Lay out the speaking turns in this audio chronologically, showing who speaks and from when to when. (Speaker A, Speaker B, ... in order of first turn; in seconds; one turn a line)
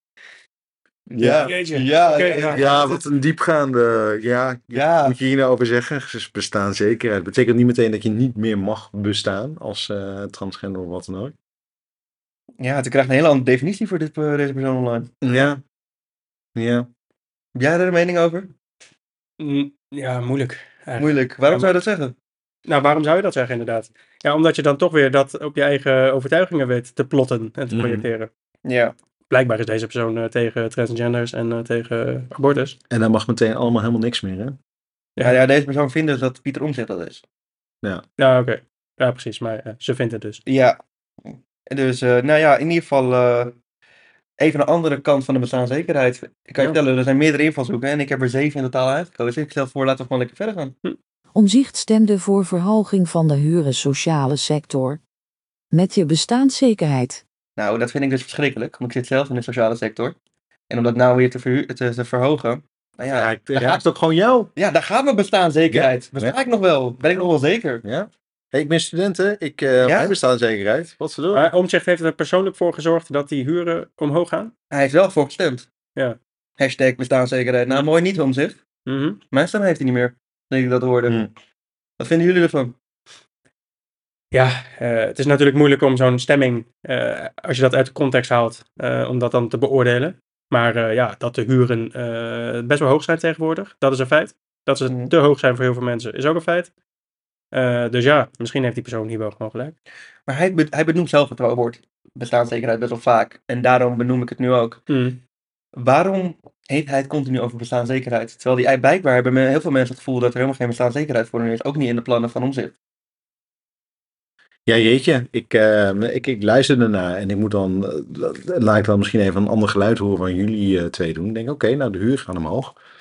Speaker A: 1.1-3.0
Speaker B: 1.1-1.5
Speaker C: 1.3-2.6
Speaker B: 2.3-11.3
Speaker A: 4.7-5.2
Speaker A: 12.6-15.1
Speaker B: 15.2-15.6
Speaker B: 16.6-16.9
Speaker A: 17.6-18.5
Speaker C: 19.4-21.7
Speaker A: 21.0-22.1
Speaker C: 22.7-28.3
Speaker B: 27.7-28.1
Speaker A: 28.6-28.9
Speaker C: 29.3-32.8
Speaker B: 32.9-34.6
Speaker A: 35.2-37.2
Speaker C: 38.2-40.4
Speaker A: 40.5-40.8
Speaker A: 41.3-43.5
Speaker A: 44.4-50.7
Speaker D: 51.4-55.0
Speaker D: 55.7-57.2
Speaker A: 57.6-60.1
Speaker A: 60.7-63.8
Speaker B: 63.1-64.5
Speaker A: 64.6-67.8
Speaker B: 65.7-66.4
Speaker B: 67.8-71.5
Speaker A: 69.8-70.1
Speaker C: 71.3-74.5
Speaker A: 74.7-75.7
Speaker A: 76.6-78.6
Speaker C: 78.9-79.2
Speaker A: 79.3-81.3
Speaker A: 82.0-82.7
Speaker C: 84.3-96.7
Speaker A: 94.9-95.1
Speaker C: 97.5-99.7
Speaker A: 100.3-104.8
Speaker C: 104.9-105.2
Speaker A: 105.7-112.7
Speaker B: 114.7-122.8